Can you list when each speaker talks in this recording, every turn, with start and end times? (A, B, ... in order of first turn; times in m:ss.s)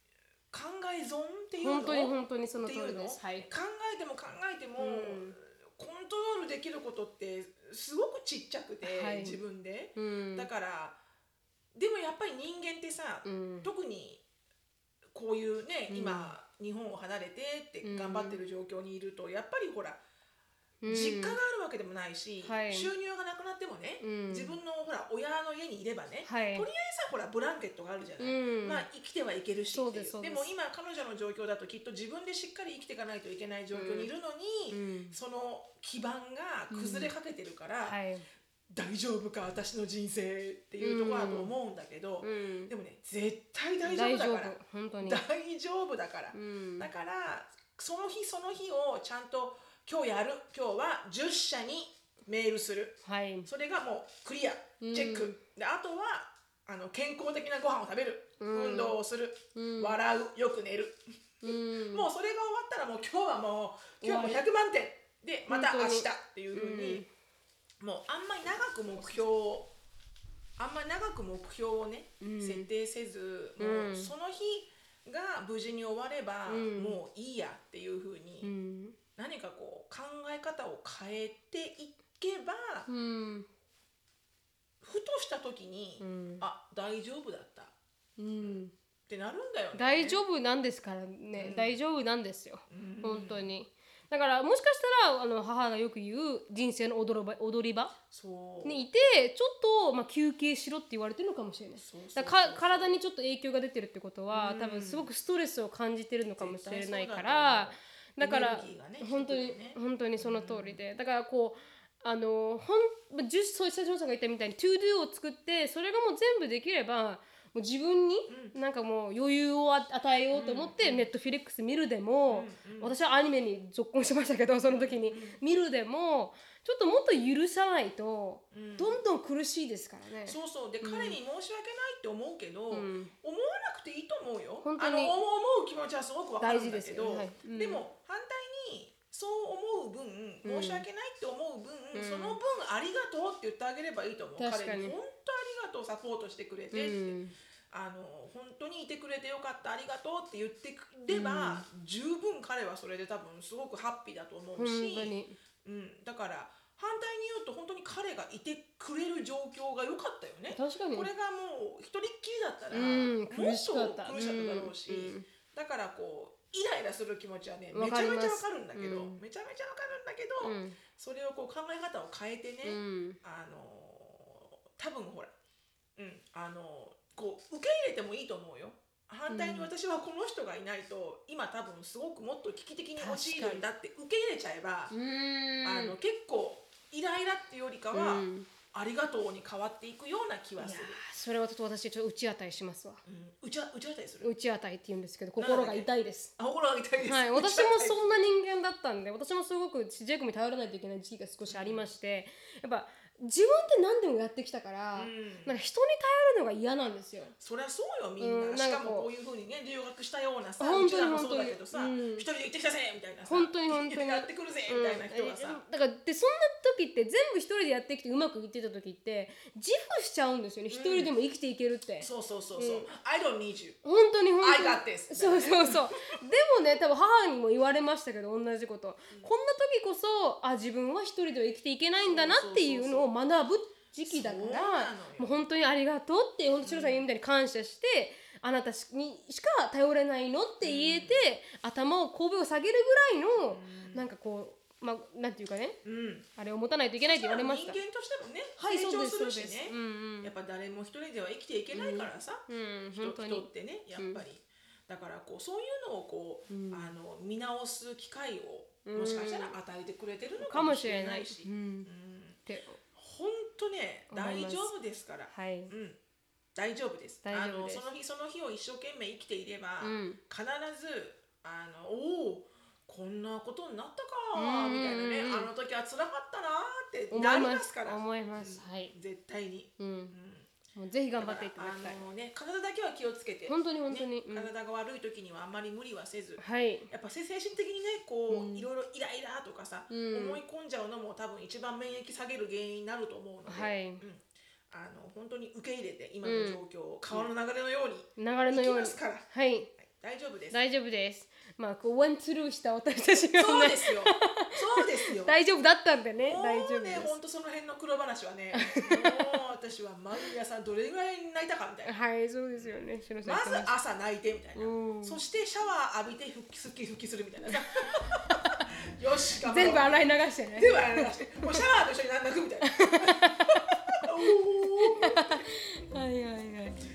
0:00.5-0:11.0 A
0:01.6-0:03.5 B
0:04.8-0:05.4 B
0:08.8-0:09.4 B
0:10.0-0:10.5 B
0:11.7-0:14.2 A
0:13.2-0:13.7 B
0:15.1-0:20.0 A
0:15.9-0:16.3 B
0:17.8-0:18.4 B
0:20.8-0:21.4 B
0:20.9-0:38.0 A
0:22.4-0:22.9 B
0:24.0-0:24.6 B
0:26.2-0:26.7 B
0:28.2-0:28.9 B
0:29.7-0:30.5 B
0:33.7-0:34.1 B
0:34.7-0:35.2 B
0:36.7-0:37.1 B
0:37.9-0:38.2 B
0:38.7-1:07.0 A
0:40.8-0:41.5 B
0:42.2-0:42.7 B
0:43.8-0:45.2 B
0:46.3-0:46.9 B
0:53.0-0:53.5 B
0:54.8-0:55.4 B
0:58.4-0:59.0 B
0:59.6-1:00.0 B
1:01.4-1:02.1 B
1:04.0-1:04.4 B
1:05.5-1:07.1 B
1:07.8-1:09.7 A
1:10.6-1:18.5 A
1:12.2-1:12.7 B
1:13.6-1:14.1 B
1:16.5-1:17.0 B
1:18.4-1:19.0 B
1:19.2-1:22.9 A
1:22.9-1:23.5 B
1:24.8-1:27.7 A
1:26.0-1:26.4 B
1:28.2-1:28.7 B
1:28.4-1:30.2 A
1:29.7-1:37.9 B
1:31.4-1:31.8 A
1:32.7-1:33.5 A
1:38.1-1:38.8 A
1:38.6-2:11.2 B
1:41.8-1:43.0 A
1:44.3-1:45.1 A
1:46.4-1:50.8 A
1:58.3-1:58.6 A
2:00.3-2:01.1 A
2:02.3-2:03.0 A
2:04.7-2:05.4 A
2:08.5-2:09.0 A
2:10.2-2:27.2 A
2:12.7-2:13.1 B
2:14.6-2:15.2 B
2:16.4-2:17.8 B
2:20.4-2:20.9 B
2:21.9-2:22.4 B
2:24.4-2:25.0 B
2:26.7-2:27.4 B
2:27.7-2:55.3 A
2:31.1-2:31.6 B
2:34.6-2:35.4 B
2:40.5-2:41.1 B
2:42.7-2:45.2 B
2:47.7-2:49.2 B
2:50.4-2:50.8 B
2:52.6-2:53.2 B
2:56.0-3:04.9 A
2:59.3-2:59.7 B
3:03.0-3:03.6 B
3:04.9-3:06.0 B
3:05.6-3:11.0 A
3:07.9-3:08.5 B
3:10.6-3:13.0 B
3:13.0-3:14.3 A
3:14.2-3:16.3 B
3:15.4-3:18.1 A
3:17.0-3:27.4 B
3:21.5-3:21.9 A
3:24.9-3:25.5 A
3:27.4-3:35.6 A
3:28.2-3:29.1 B
3:30.6-3:32.3 B
3:33.3-3:42.9 B
3:40.7-3:41.1 A
3:42.0-3:43.8 A
3:43.8-4:05.8 B
3:44.4-3:46.2 A
3:52.0-3:53.1 A
3:54.1-3:55.4 A
3:56.6-3:57.1 A
4:00.6-4:01.2 A
4:03.4-4:04.1 A
4:05.8-4:06.3 A
4:06.4-4:07.8 B
4:07.0-4:22.4 A
4:08.6-4:10.3 B
4:11.7-4:14.2 B
4:16.5-4:16.9 B
4:18.8-4:19.6 B
4:20.4-4:21.9 B
4:22.5-4:22.8 B
4:23.0-4:26.0 A
4:24.1-4:24.7 B
4:25.3-4:25.7 B
4:26.6-4:40.5 A
4:27.2-4:27.9 B
4:29.8-4:30.2 B
4:34.4-4:35.5 B
4:37.1-4:38.9 B
4:39.8-4:40.1 B
4:40.8-4:42.0 B
4:41.2-4:59.3 A
4:43.5-4:44.5 B
4:46.4-4:46.9 B
4:48.3-4:48.7 B
4:49.9-4:50.4 B
4:53.5-4:54.0 B
4:56.2-4:57.3 B
4:58.2-4:59.7 B
4:59.8-5:00.6 A
5:00.5-5:07.2 B
5:03.4-5:05.4 A
5:06.2-5:12.0 A
5:08.5-5:09.3 B
5:11.9-5:13.7 B
5:12.6-5:25.5 A
5:14.6-5:15.2 B
5:17.5-5:18.7 B
5:19.4-5:21.6 B
5:22.6-5:26.8 B